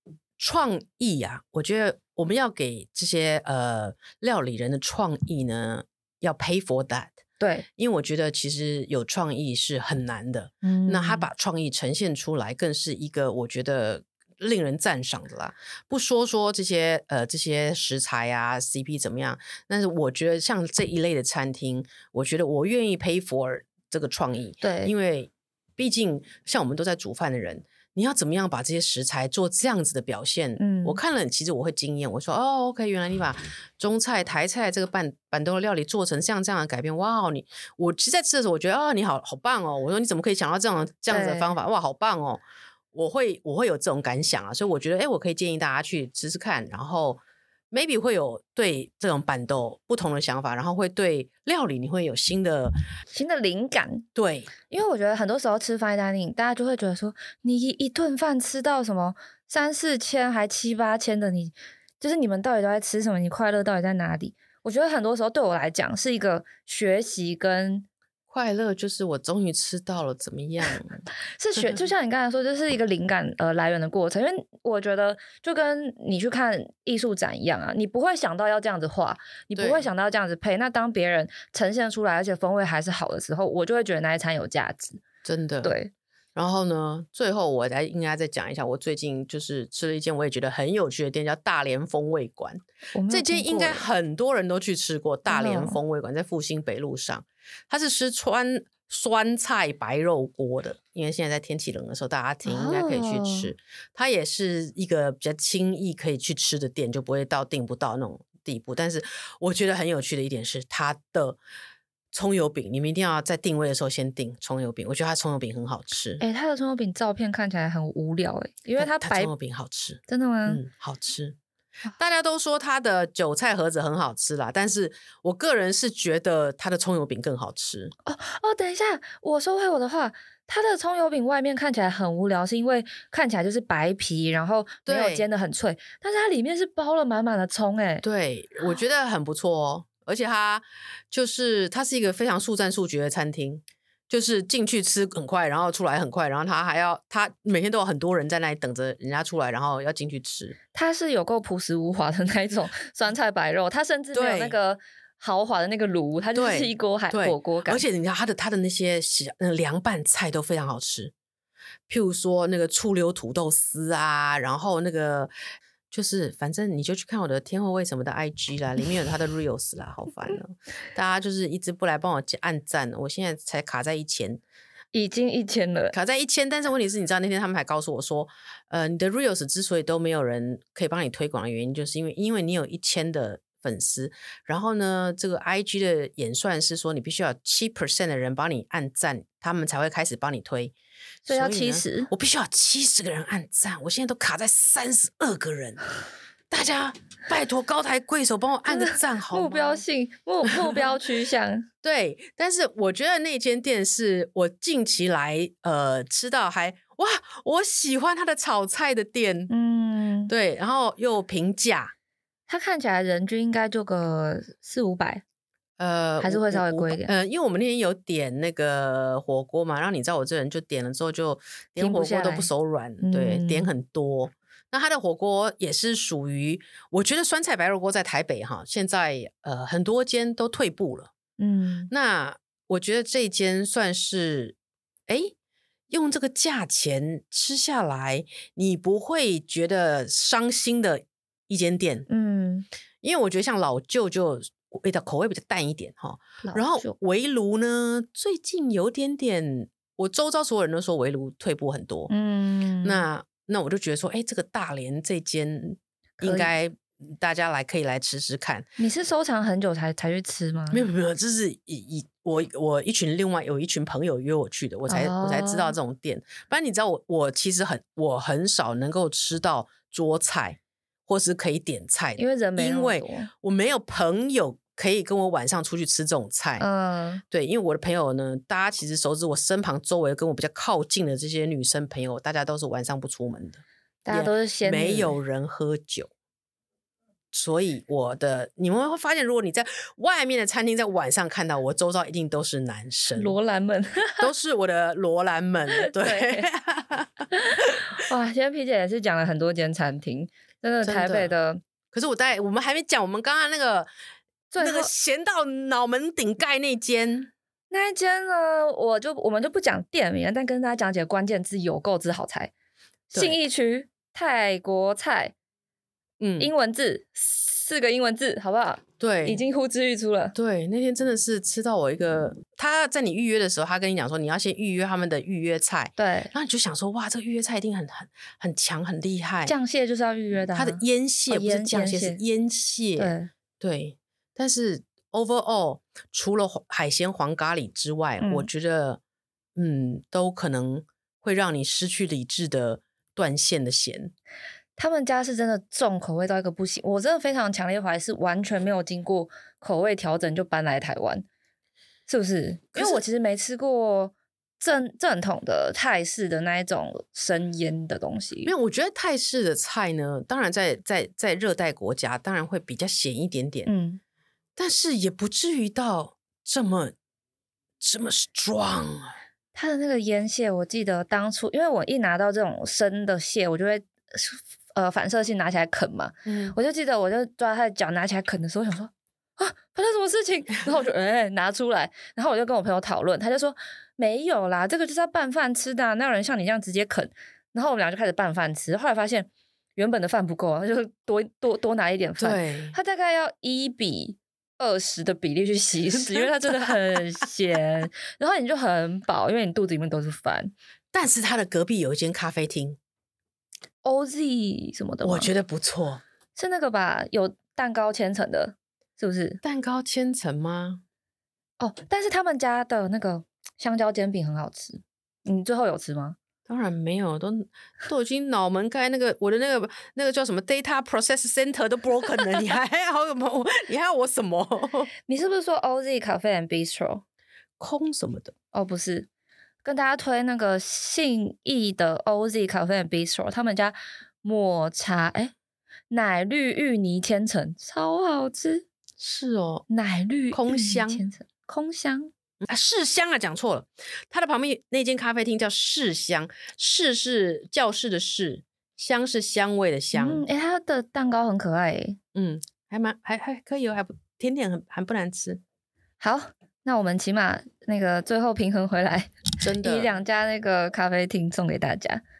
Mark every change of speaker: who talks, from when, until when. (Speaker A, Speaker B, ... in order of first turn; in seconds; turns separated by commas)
Speaker A: 0.4-7.2, Speaker B: 7.4-7.7, Speaker A: 7.8-42.4, Speaker B: 10.6-11.3, Speaker B: 24.6-24.9, Speaker B: 30.6-31.0, Speaker B: 41.1-41.5, Speaker A: 42.9-52.8, Speaker B: 53.1-54.0, Speaker A: 54.1-54.5, Speaker B: 54.7-67.8, Speaker A: 68.3-71.0, Speaker B: 71.4-85.0, Speaker A: 79.5-79.9, Speaker A: 85.2-85.7, Speaker B: 85.6-85.9, Speaker A: 86.3-111.4, Speaker B: 92.9-93.8, Speaker B: 95.3-95.8, Speaker B: 102.4-103.5, Speaker A: 112.1-116.2, Speaker B: 116.2-119.3, Speaker A: 118.8-121.4, Speaker B: 120.1-120.6, Speaker A: 121.9-127.9, Speaker B: 128.1-138.0, Speaker A: 134.8-135.2, Speaker A: 138.0-150.6, Speaker B: 150.7-157.8, Speaker A: 154.1-154.6, Speaker A: 156.3-161.1, Speaker A: 161.9-165.3, Speaker A: 165.9-174.4, Speaker B: 174.9-175.9, Speaker A: 175.9-190.7, Speaker A: 191.2-195.8, Speaker B: 191.3-192.1, Speaker A: 196.5-199.8, Speaker B: 198.7-201.7, Speaker A: 201.8-209.5, Speaker B: 209.5-210.3, Speaker A: 210.3-211.9, Speaker B: 212.5-215.2, Speaker A: 215.8-231.1, Speaker B: 216.2-217.1, Speaker B: 221.8-222.5, Speaker B: 223.0-223.7, Speaker B: 231.4-231.9, Speaker A: 231.9-234.6, Speaker A: 235.1-235.3, Speaker A: 235.9-242.1, Speaker B: 242.1-242.7, Speaker A: 243.0-252.1, Speaker B: 246.4-246.9, Speaker B: 252.1-253.1, Speaker A: 252.8-258.7, Speaker B: 256.2-256.5, Speaker B: 258.8-260.9, Speaker A: 260.7-276.6, Speaker B: 264.9-265.8, Speaker B: 272.2-273.3, Speaker B: 276.6-277.2, Speaker A: 277.3-286.1, Speaker B: 284.1-285.1, Speaker A: 287.3-293.3, Speaker B: 293.2-294.3, Speaker A: 294.2-298.0, Speaker B: 295.8-296.4, Speaker B: 297.3-301.6, Speaker A: 300.8-301.3, Speaker A: 301.9-303.9, Speaker B: 304.5-304.9, Speaker A: 304.6-307.3, Speaker B: 307.7-312.5, Speaker B: 313.1-315.3, Speaker A: 316.2-316.5, Speaker B: 316.4-320.4, Speaker A: 319.0-319.4, Speaker A: 320.3-329.5, Speaker B: 326.0-326.3, Speaker B: 329.5-332.2, Speaker A: 330.5-339.0, Speaker B: 333.0-333.3, Speaker B: 338.2-338.5, Speaker A: 339.6-344.1, Speaker B: 344.8-351.2, Speaker B: 352.1-358.5, Speaker A: 352.7-353.0, Speaker A: 358.4-363.7, Speaker B: 363.6-364.0, Speaker A: 364.6-366.9, Speaker A: 367.8-369.1, Speaker B: 369.5-400.5, Speaker A: 376.2-376.5, Speaker A: 392.2-392.8, Speaker A: 395.9-396.8, Speaker A: 400.9-402.8, Speaker B: 403.8-405.3, Speaker A: 405.0-406.0, Speaker B: 406.4-409.4, Speaker A: 409.4-410.8, Speaker B: 411.6-416.2, Speaker A: 416.5-424.9, Speaker B: 425.1-427.0, Speaker A: 427.6-428.3, Speaker B: 428.5-429.1, Speaker B: 429.6-435.3, Speaker B: 435.9-438.6, Speaker A: 439.0-439.6, Speaker B: 439.7-442.1, Speaker A: 440.3-441.0, Speaker A: 442.4-450.2, Speaker B: 449.9-452.0, Speaker A: 452.1-455.4, Speaker B: 456.0-462.0, Speaker A: 459.4-459.9